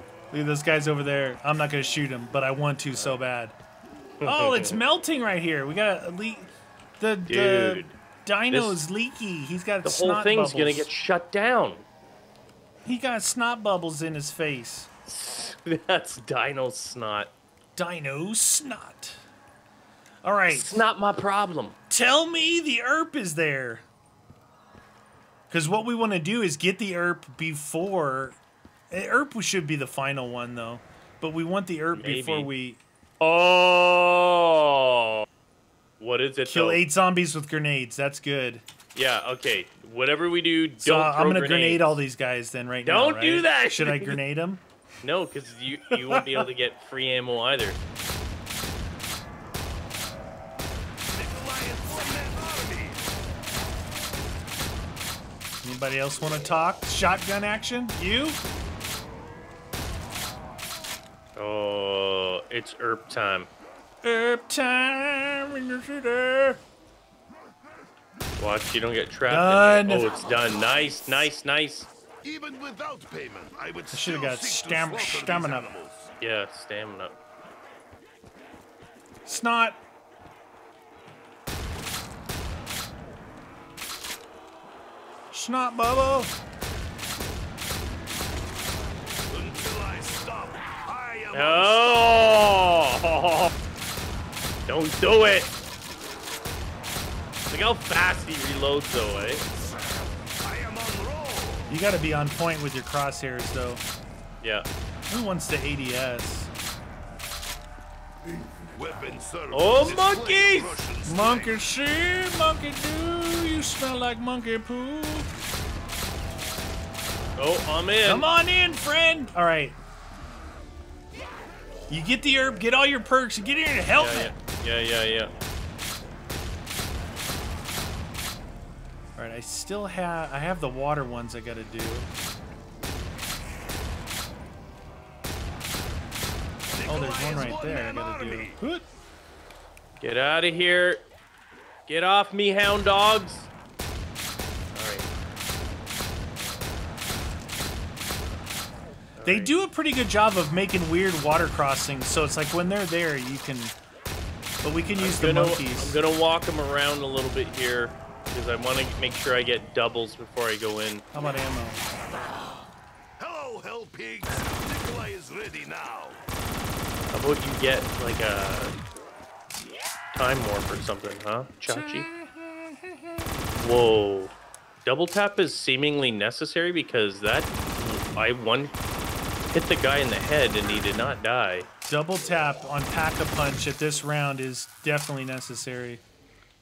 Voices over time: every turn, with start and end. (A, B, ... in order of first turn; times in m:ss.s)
0:00.3-0:03.6 A
0:04.2-0:04.8 B
0:04.2-0:10.9 A
0:07.3-0:08.0 B
0:08.5-0:08.8 B
0:09.8-0:11.8 B
0:12.8-0:14.9 A
0:15.1-0:17.3 B
0:17.8-0:19.2 A
0:20.2-0:20.8 A
0:20.5-0:21.8 B
0:21.9-0:23.8 A
0:25.5-0:28.4 A
0:28.9-0:32.8 A
0:31.9-0:32.5 B
0:33.2-0:35.3 B
0:36.0-0:36.8 B
0:36.5-0:38.6 A
0:39.0-0:42.0 B
0:40.8-0:44.6 A
0:42.8-0:44.2 B
0:45.0-0:47.8 B
0:45.9-0:46.5 A
0:51.1-0:53.0 C
0:55.6-0:58.4 A
1:01.4-1:03.5 B
1:04.0-1:06.6 A
1:08.4-1:11.9 B
1:09.3-1:10.1 A
1:12.2-1:16.1 C
1:13.9-1:15.7 A
1:16.2-1:17.2 B
1:19.3-1:19.8 A
1:25.3-1:26.3 A
1:29.3-1:32.0 C
1:31.3-1:33.5 B
1:34.7-1:35.5 B
1:37.5-1:39.4 B
1:39.8-1:41.7 C
1:41.7-1:43.8 A
1:44.4-1:44.7 B
1:45.1-1:46.5 A
1:48.7-1:51.6 C
1:49.5-1:50.8 B
1:51.0-1:55.3 A
1:57.4-1:58.3 B
1:58.0-1:59.8 A
2:01.9-2:04.3 A
2:04.0-2:05.3 B
2:09.2-2:12.1 A
2:16.7-2:18.6 C
2:16.8-2:18.9 A
2:20.0-2:21.0 B
2:21.9-2:23.5 B
2:24.7-2:25.1 B
2:29.2-2:29.5 B
2:29.2-2:33.8 A
2:34.6-2:36.0 A
2:35.0-2:41.1 B
2:41.1-2:41.8 A
2:43.2-2:46.2 C
2:47.1-2:48.7 B
2:50.1-2:52.1 B
2:51.7-2:53.2 A
2:53.6-2:54.3 B
2:54.8-2:58.7 B
2:59.5-3:01.7 B
3:01.9-3:06.0 A